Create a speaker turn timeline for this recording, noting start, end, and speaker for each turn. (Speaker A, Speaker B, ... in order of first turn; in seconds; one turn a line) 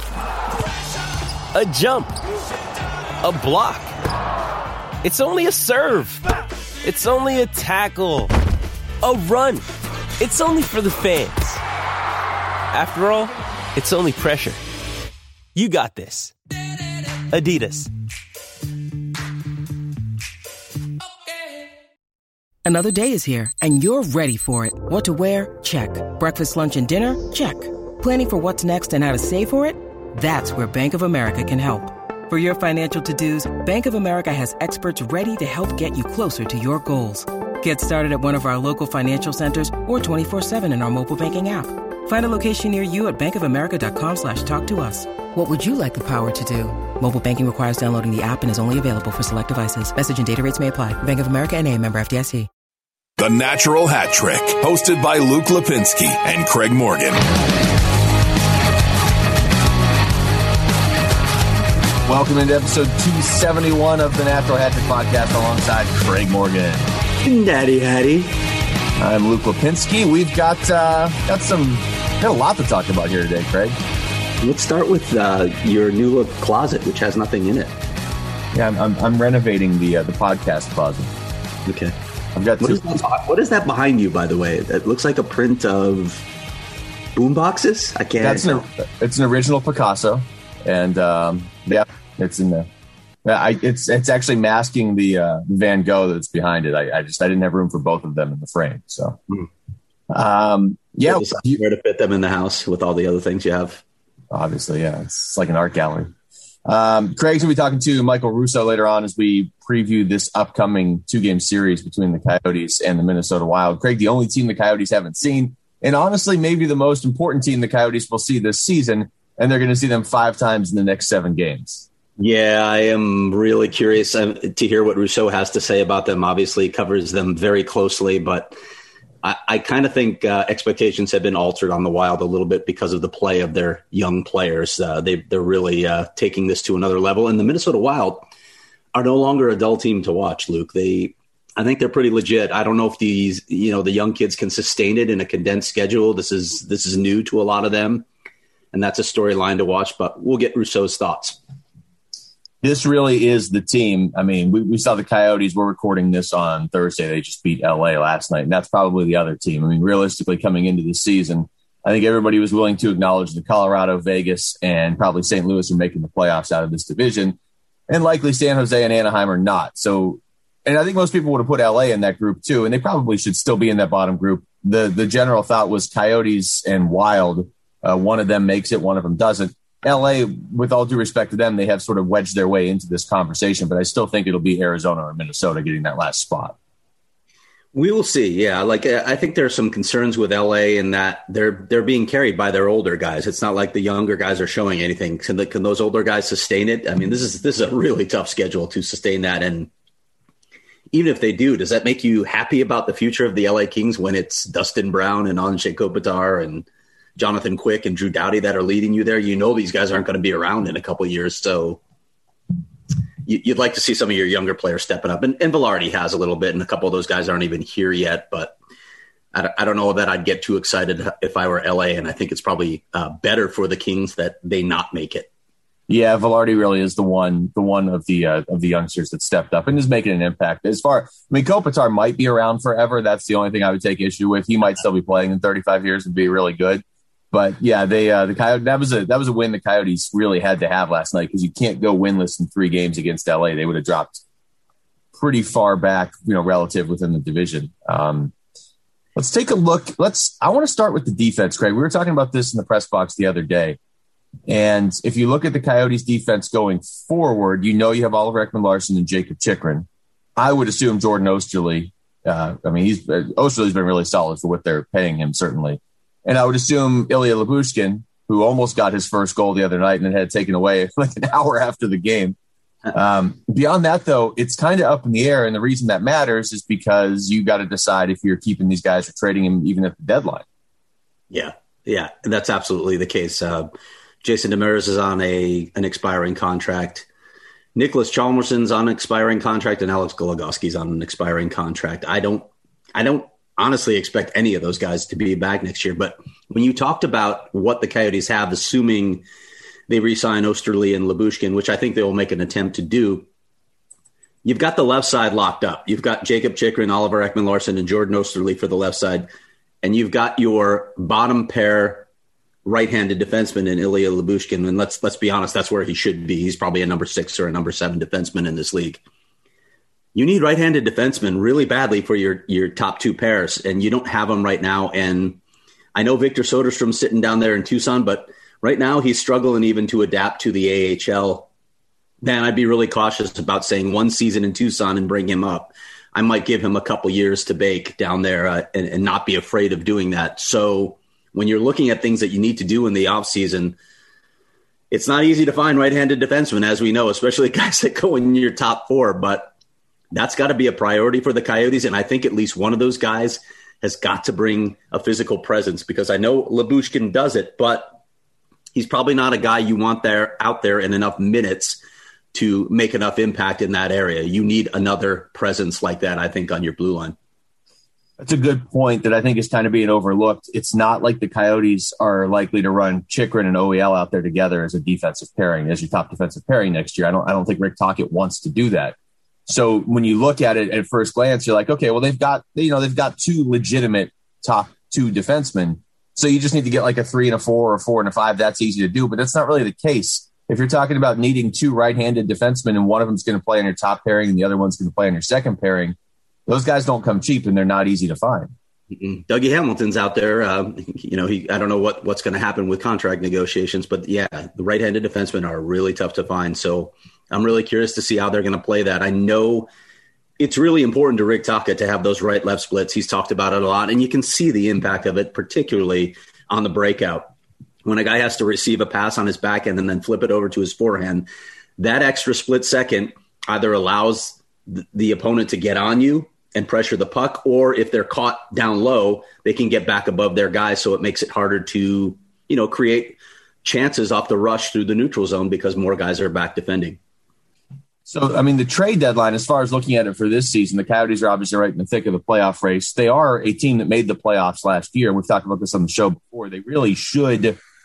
Speaker A: 1.5-2.2
Speaker A: 3.2-3.9
Speaker A: 5.0-6.2
Speaker A: 6.8-8.3
Speaker A: 9.0-9.7
Speaker A: 10.2-11.6
Speaker A: 12.7-14.6
Speaker A: 15.6-16.3
Speaker A: 17.3-17.9
Speaker B: 22.6-52.5
Speaker C: 53.2-57.2
Speaker D: 62.0-66.9
Speaker E: 67.2-68.3
Speaker D: 69.0-73.8
Speaker E: 74.4-77.8
Speaker D: 78.5-81.1
Speaker E: 81.7-82.0
Speaker D: 82.3-82.9
Speaker E: 82.6-86.3
Speaker E: 87.1-88.6
Speaker D: 88.2-92.7
Speaker D: 93.2-99.2
Speaker D: 100.1-101.5
Speaker E: 101.0-103.8
Speaker D: 104.3-106.1
Speaker D: 106.7-121.9
Speaker E: 122.2-128.6
Speaker E: 129.2-138.3
Speaker E: 138.9-148.1
Speaker E: 148.7-151.4
Speaker D: 152.6-167.4
Speaker D: 167.9-186.6
Speaker E: 187.7-199.7
Speaker E: 200.9-206.7
Speaker E: 207.2-211.8
Speaker E: 213.3-218.6
Speaker E: 219.3-225.3
Speaker D: 225.9-244.2
Speaker D: 245.1-248.3
Speaker D: 249.2-253.8
Speaker D: 254.5-272.4
Speaker D: 272.9-280.4
Speaker E: 281.3-283.7
Speaker E: 284.2-287.1
Speaker E: 287.8-299.2
Speaker E: 299.9-303.3
Speaker E: 304.4-309.3
Speaker E: 309.8-312.1
Speaker E: 312.6-319.0
Speaker E: 320.1-325.4
Speaker E: 325.9-331.5
Speaker E: 332.2-343.8
Speaker E: 344.9-349.5
Speaker E: 350.1-357.9
Speaker E: 358.8-361.8
Speaker E: 362.3-367.2
Speaker D: 368.2-379.0
Speaker D: 379.5-396.0
Speaker D: 396.5-398.5
Speaker E: 398.9-409.7
Speaker E: 410.4-417.3
Speaker E: 417.9-437.0
Speaker D: 438.1-447.6